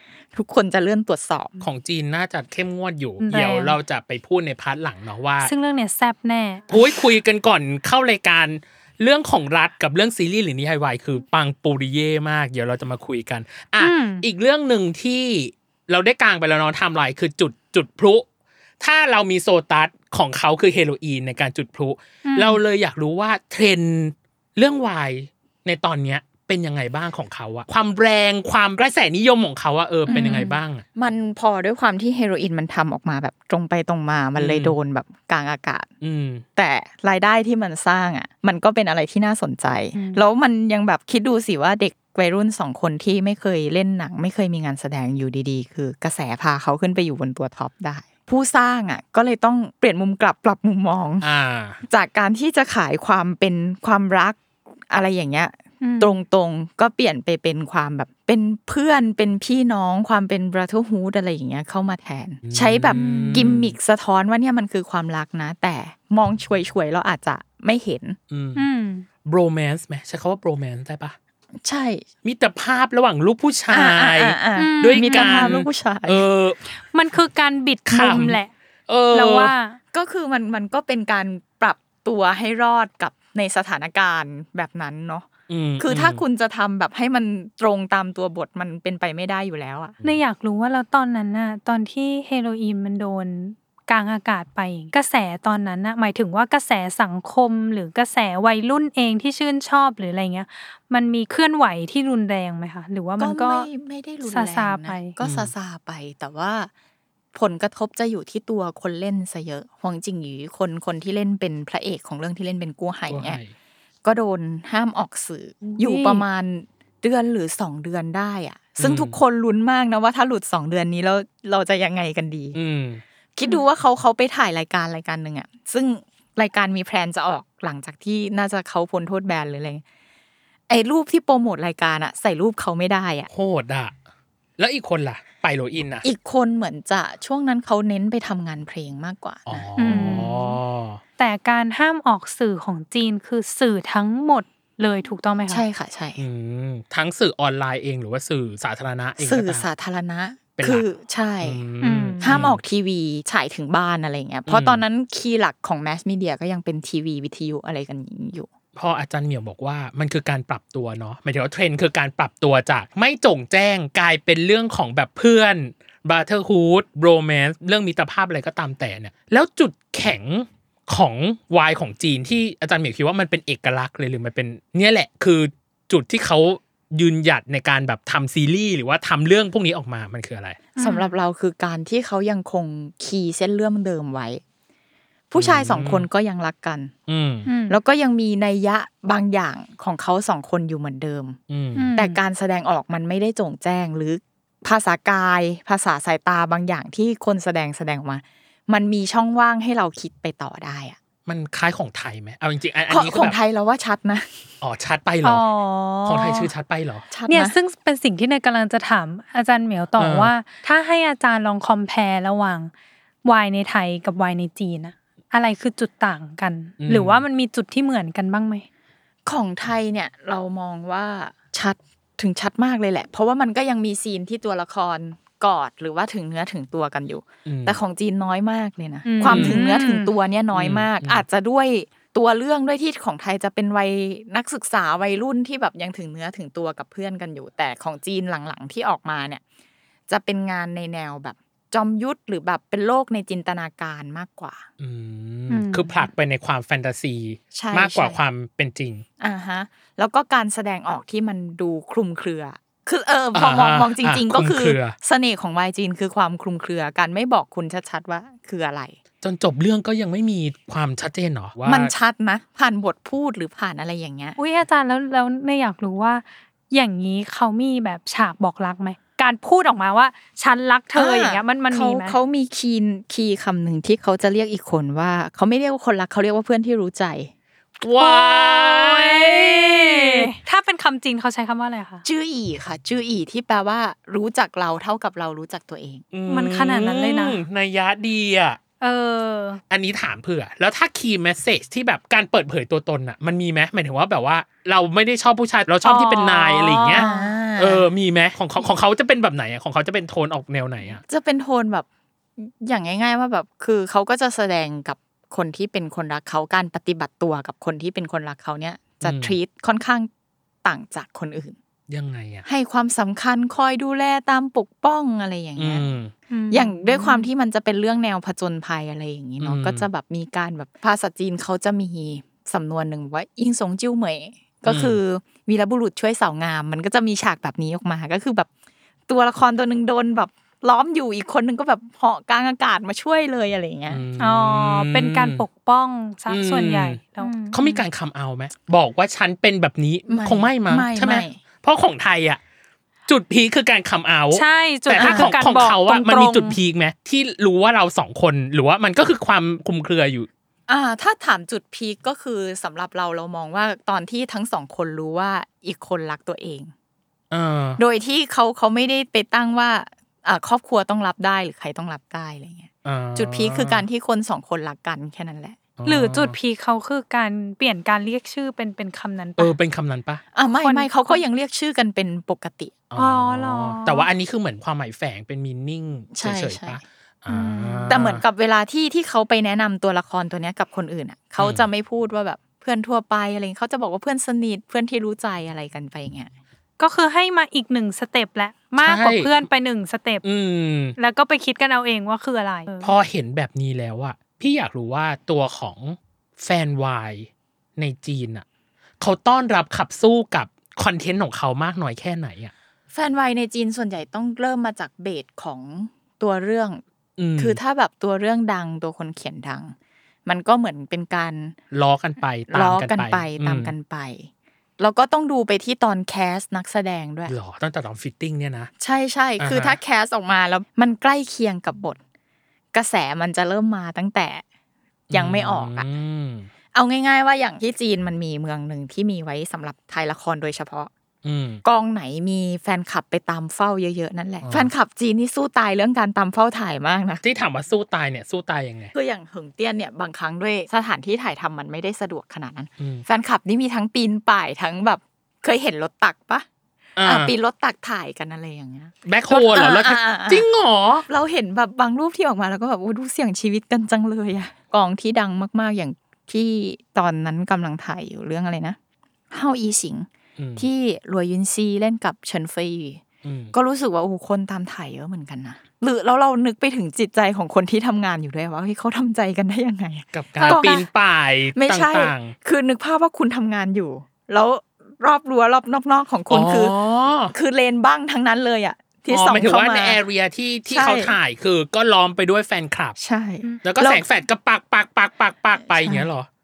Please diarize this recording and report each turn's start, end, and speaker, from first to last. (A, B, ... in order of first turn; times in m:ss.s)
0:00.3-0:01.5 A
0:01.6-0:05.5 B
0:03.2-0:03.8 C
0:05.4-0:06.9 C
0:06.7-0:18.3 B
0:13.8-0:14.2 C
0:18.8-0:30.8 B
0:22.3-0:22.6 C
0:30.1-0:30.6 C
0:30.1-0:30.4 A
0:31.0-0:35.9 A
0:34.4-0:34.8 B
0:36.0-0:36.4 B
0:36.6-0:51.3 A
0:40.0-0:40.2 C
0:51.2-0:51.8 B
0:51.8-1:08.2 A
0:55.8-0:56.2 C
1:02.4-1:03.8 B
1:02.9-1:03.6 C
1:08.3-1:08.7 B
1:08.6-1:09.1 C
1:09.2-1:11.2 B
1:11.6-1:12.0 A
1:12.2-1:16.6 B
1:13.7-1:16.2 A
1:14.6-1:15.6 C
1:16.7-1:18.5 C
1:17.9-1:19.5 B
1:19.1-1:19.8 C
1:19.9-1:30.0 A
1:25.5-1:26.2 B
1:30.0-1:43.7 C
1:43.2-1:46.7 A
1:44.2-1:45.2 C
1:45.2-1:45.5 B
1:47.3-1:53.4 A
1:53.1-1:53.5 B
1:54.0-2:02.6 A
1:55.6-1:56.2 C
1:58.8-1:59.2 B
2:02.5-2:03.0 B
2:03.4-2:09.8 A
2:10.7-2:13.3 A
2:13.3-2:14.0 B
2:14.6-2:16.1 B
2:16.0-2:20.3 A
2:19.5-2:21.0 B
2:19.8-2:20.6 C
2:21.2-2:25.6 C
2:25.5-2:26.2 A
2:26.2-2:29.7 B
2:29.2-2:31.6 A
2:30.6-2:30.8 B
2:31.4-2:32.6 B
2:31.8-2:32.4 C
2:32.2-2:38.5 A
2:34.5-2:34.8 B
2:38.8-3:00.6 B
3:00.8-3:04.4 A
3:00.8-3:01.1 C
3:05.3-3:06.9 A
3:05.4-3:06.1 B
3:07.1-3:07.5 B
3:07.5-3:07.8 C
3:07.7-3:11.4 A
3:11.5-3:11.9 B
3:11.8-3:12.2 C
3:12.0-3:21.0 A
3:21.3-3:23.4 B
3:22.9-3:24.3 A
3:24.6-3:25.5 B
3:25.2-3:26.5 C
3:26.0-3:27.1 B
3:27.1-3:27.6 A
3:27.3-3:32.7 C
3:30.0-3:30.3 B
3:33.2-3:38.7 C
3:36.8-3:37.2 B
3:39.3-3:59.4 A
3:47.5-3:47.8 B
3:49.0-3:50.1 C
3:49.2-3:49.6 B
3:50.5-3:51.2 B
4:00.1-4:04.6 A
4:04.8-4:09.0 B
4:05.5-4:06.1 C
4:07.5-4:08.2 A
4:09.2-4:19.0 A
4:13.4-4:15.0 B
4:19.2-4:21.9 B
4:21.6-4:24.4 A
4:24.4-4:32.2 C
4:30.9-4:37.3 A
4:37.8-4:40.3 B
4:38.0-4:42.0 C
4:42.0-4:46.0 A
4:46.1-4:48.6 B
4:46.3-4:47.4 C
4:48.8-4:49.6 C
4:49.7-4:57.1 B
4:55.8-4:57.3 C
4:56.9-4:57.9 A
4:57.6-5:01.0 B
5:01.0-5:01.9 A
5:02.4-5:10.1 A
5:09.0-5:09.4 B
5:10.6-5:11.6 A
5:11.9-5:12.5 B
5:12.5-5:15.9 A
5:15.6-5:16.1 B
5:16.3-5:17.3 C
5:16.5-5:28.5 A
5:19.4-5:19.9 B
5:24.7-5:25.0 B
5:29.1-5:34.0 A
5:33.9-5:35.4 B
5:34.2-5:37.8 C
5:36.3-5:37.0 B
5:37.5-5:42.4 B
5:40.1-5:41.4 A
5:43.1-5:50.3 B
5:44.3-5:46.6 C
5:45.0-5:45.3 A
5:50.7-5:56.7 A
5:57.3-5:57.8 B
5:57.8-6:05.6 A
6:02.8-6:03.9 B
6:05.8-6:06.4 B
6:05.9-6:09.5 C
6:09.4-6:10.2 B
6:10.3-6:12.8 A
6:10.6-6:11.2 C
6:12.9-6:18.2 B
6:13.0-6:14.1 C
6:16.1-6:16.8 A
6:17.3-6:18.0 C
6:17.9-6:26.3 A
6:21.4-6:21.7 B
6:26.8-6:30.2 C
6:28.8-6:29.4 B
6:30.2-6:31.0 B
6:31.0-6:32.9 C
6:32.8-6:38.4 B
6:39.0-6:42.5 B
6:42.9-6:46.8 A
6:47.2-6:47.6 B
6:47.4-6:49.8 A
6:50.3-6:51.6 A
6:51.7-6:53.7 B
6:52.5-6:57.3 A
6:57.3-6:58.7 B
6:58.8-7:02.0 A
6:59.4-6:59.8 B
7:02.7-7:04.4 A
7:05.1-7:06.5 B
7:05.1-7:05.9 A
7:06.7-7:10.9 A
7:11.2-7:11.6 B
7:11.6-7:17.2 A
7:14.4-7:14.7 B
7:17.2-7:18.9 B
7:18.9-7:26.5 A
7:22.8-7:23.0 B
7:27.0-7:27.3 B
7:27.0-7:30.4 A
7:29.0-7:31.1 B
7:31.1-7:38.8 A
7:39.3-7:43.0 A
7:40.4-7:40.7 B
7:43.2-7:43.5 B
7:43.5-7:50.8 A
7:50.1-7:52.4 B
7:50.4-7:50.8 C
7:51.6-7:56.7 A
7:56.3-7:57.3 B
7:57.3-8:00.0 A
7:59.1-8:03.0 B
8:00.7-8:01.1 A
8:03.0-8:04.0 A
8:03.6-8:06.3 B